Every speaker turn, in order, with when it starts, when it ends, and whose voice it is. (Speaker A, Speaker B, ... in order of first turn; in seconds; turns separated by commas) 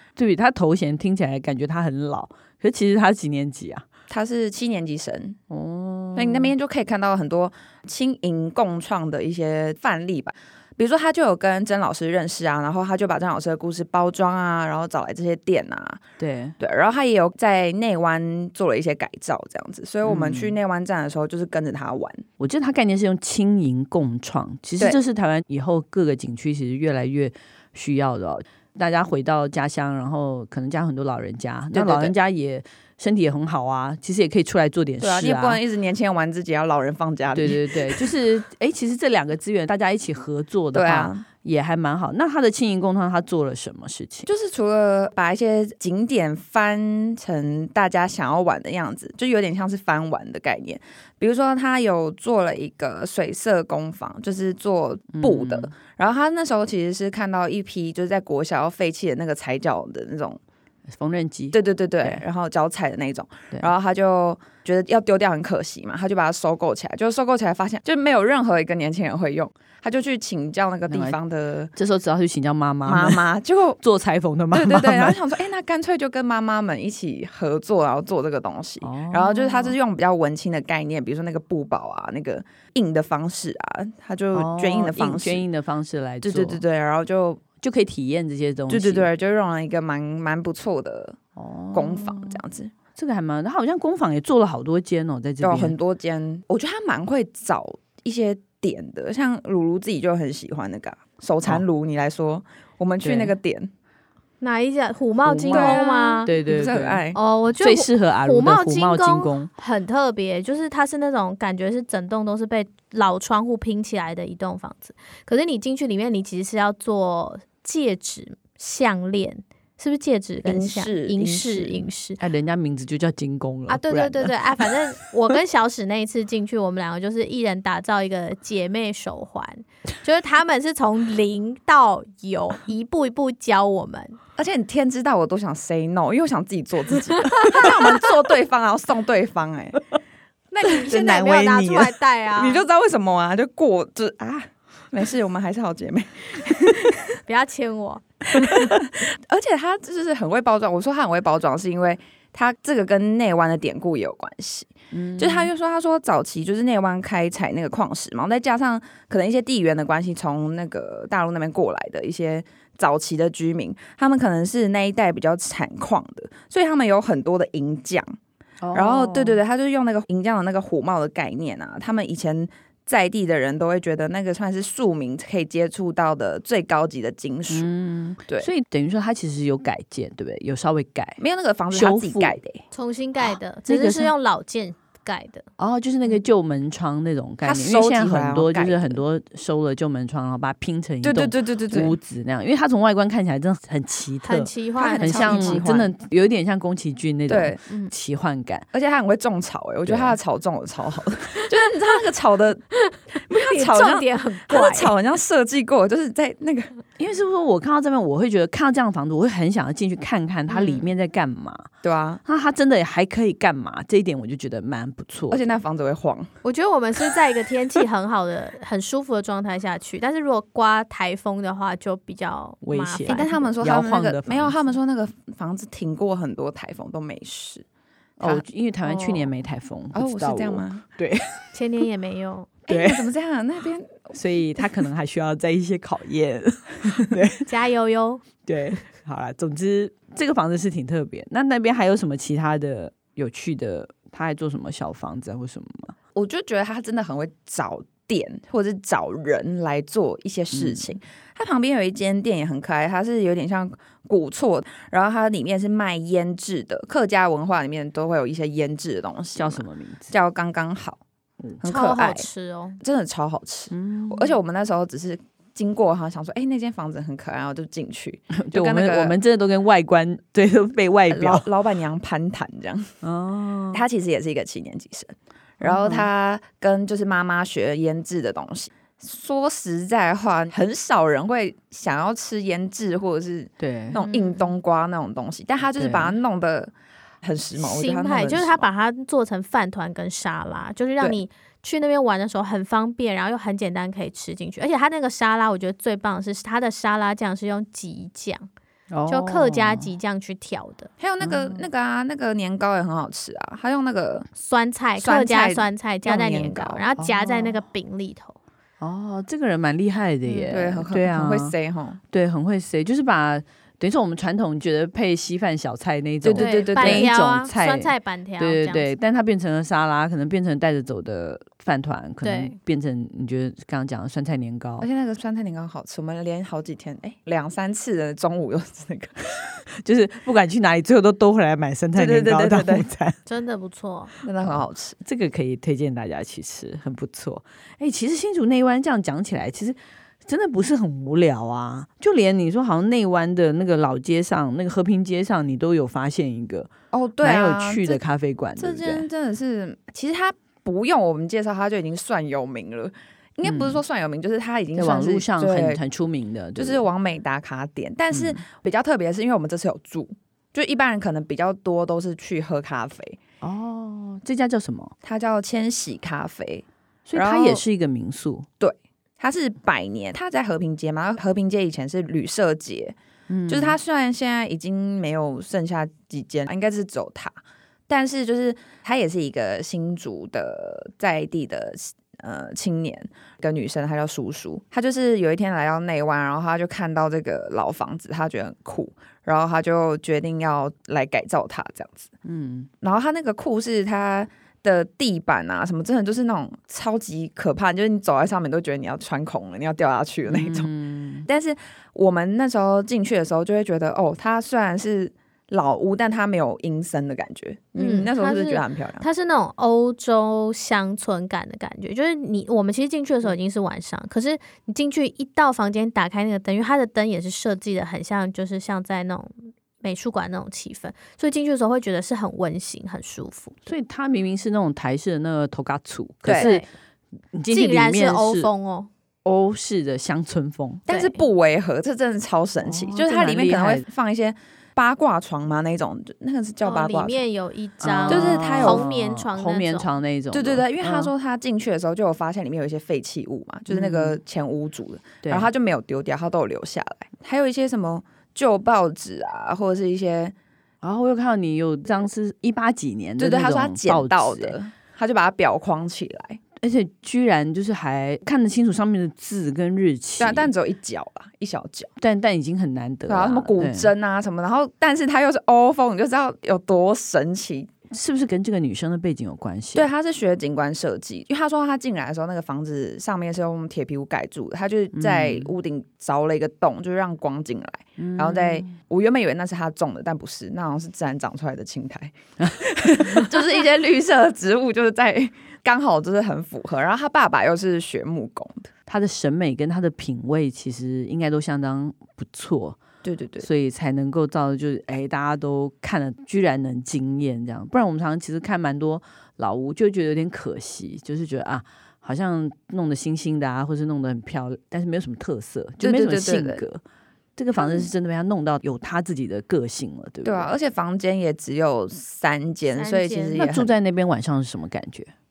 Speaker A: 0.1-3.9, Speaker B: 4.1-5.4, Speaker A: 5.5-6.5, Speaker B: 6.1-16.0, Speaker A: 16.2-16.6, Speaker B: 16.6-22.2, Speaker A: 20.0-20.6, Speaker A: 22.4-35.6, Speaker B: 31.7-32.1, Speaker B: 35.0-38.0, Speaker A: 37.3-44.3, Speaker B: 40.7-41.2, Speaker B: 44.3-60.4, Speaker A: 55.2-55.7, Speaker A: 60.9-62.2, Speaker B: 61.5-71.7, Speaker A: 70.9-71.2, Speaker A: 71.7-73.2, Speaker B: 72.8-73.8, Speaker A: 73.8-75.2, Speaker B: 74.5-85.4, Speaker A: 78.8-79.8, Speaker A: 84.3-86.6, Speaker B: 86.2-87.4, Speaker A: 87.6-89.1, Speaker B: 88.7-91.2, Speaker A: 91.4-92.4, Speaker B: 91.7-92.7, Speaker A: 92.9-95.7, Speaker B: 95.4-103.7, Speaker A: 103.0-103.3, Speaker C: 104.4-106.3, Speaker A: 105.2-107.0, Speaker B: 105.5-107.2, Speaker C: 107.1-122.2, Speaker A: 107.6-109.5, Speaker B: 120.4-121.8, Speaker A: 122.2-124.7, Speaker C: 123.7-134.2, Speaker B: 134.4-139.9, Speaker C: 140.6-142.6, Speaker B: 140.6-140.9, Speaker A: 140.8-141.9, Speaker B: 142.3-146.9, Speaker C: 147.2-148.5, Speaker B: 148.3-168.2, Speaker A: 154.9-155.5, Speaker A: 168.6-169.4, Speaker B: 168.7-177.7, Speaker A: 177.5-181.2, Speaker B: 181.2-182.6, Speaker A: 181.7-182.4, Speaker C: 182.7-185.4, Speaker A: 183.7-184.1, Speaker A: 185.6-198.7, Speaker B: 187.4-189.0, Speaker B: 191.0-192.0, Speaker C: 194.2-195.6, Speaker B: 194.8-195.9, Speaker B: 197.3-197.6, Speaker B: 198.7-202.7, Speaker A: 199.8-200.2, Speaker C: 202.8-204.9, Speaker B: 203.3-206.8, Speaker A: 207.0-211.7, Speaker B: 211.8-212.2, Speaker A: 212.2-215.4, Speaker B: 215.3-216.3, Speaker C: 216.4-223.5, Speaker A: 222.6-224.6, Speaker B: 223.1-227.6, Speaker B: 228.2-229.3, Speaker A: 228.2-231.4, Speaker B: 229.9-230.8, Speaker C: 231.5-232.5, Speaker A: 232.7-233.1, Speaker B: 232.7-234.1, Speaker A: 234.1-237.4, Speaker C: 237.4-238.2, Speaker A: 238.4-245.9, Speaker B: 246.1-261.0, Speaker A: 250.5-250.8, Speaker A: 259.3-260.1, Speaker B: 261.6-262.3, Speaker C: 261.6-262.8, Speaker B: 262.8-269.1, Speaker A: 263.7-264.3, Speaker A: 268.3-271.5, Speaker B: 271.1-272.9, Speaker A: 273.0-273.8, Speaker B: 273.7-286.7, Speaker A: 275.6-276.1, Speaker A: 283.6-284.0, Speaker C: 283.9-284.5, Speaker A: 285.8-286.2, Speaker B: 287.2-288.6, Speaker C: 287.6-298.5, Speaker A: 298.9-299.9, Speaker C: 299.1-300.9, Speaker B: 301.0-304.3, Speaker A: 301.2-301.6, Speaker C: 304.3-308.4, Speaker B: 305.0-306.8, Speaker A: 307.0-307.6, Speaker A: 308.8-311.5, Speaker C: 310.2-310.6, Speaker B: 310.5-312.0, Speaker A: 312.1-324.9, Speaker B: 316.2-317.1, Speaker C: 316.4-318.9, Speaker C: 322.2-322.6, Speaker B: 324.8-329.2, Speaker A: 329.7-333.2, Speaker B: 331.9-332.9, Speaker C: 333.3-334.1, Speaker B: 334.2-335.0, Speaker A: 334.4-349.1, Speaker B: 346.9-348.0, Speaker B: 348.6-355.8, Speaker A: 353.4-353.8, Speaker A: 354.7-356.8, Speaker B: 356.6-363.2, Speaker A: 358.1-358.4, Speaker A: 363.4-364.9, Speaker B: 365.0-367.6, Speaker A: 367.1-368.5, Speaker B: 368.6-372.9, Speaker A: 373.3-373.8, Speaker B: 373.5-377.3, Speaker B: 377.9-392.1, Speaker A: 392.2-392.7, Speaker B: 392.8-400.7, Speaker A: 400.3-401.2, Speaker B: 401.2-409.1, Speaker C: 407.8-423.6, Speaker A: 423.6-426.6, Speaker B: 426.2-426.5, Speaker C: 426.4-426.7, Speaker A: 427.3-428.5, Speaker C: 427.5-428.9, Speaker A: 429.2-430.8, Speaker B: 430.9-437.2, Speaker C: 430.9-431.1, Speaker A: 432.6-433.9, Speaker C: 436.6-439.9, Speaker A: 437.8-441.1, Speaker B: 438.1-438.9, Speaker B: 440.3-450.3, Speaker A: 443.7-444.2, Speaker A: 445.2-445.5, Speaker A: 450.8-454.6, Speaker B: 453.2-456.4, Speaker A: 456.6-460.5, Speaker B: 460.2-461.9, Speaker A: 462.0-463.9, Speaker B: 463.1-467.7, Speaker A: 467.9-469.9, Speaker B: 469.7-488.7, Speaker A: 474.9-475.5, Speaker A: 478.0-478.7, Speaker A: 488.9-492.8, Speaker B: 493.0-493.5, Speaker A: 493.4-506.8, Speaker B: 505.8-506.6, Speaker A: 507.4-510.5, Speaker B: 510.2-513.7, Speaker C: 512.7-513.4, Speaker A: 513.4-515.1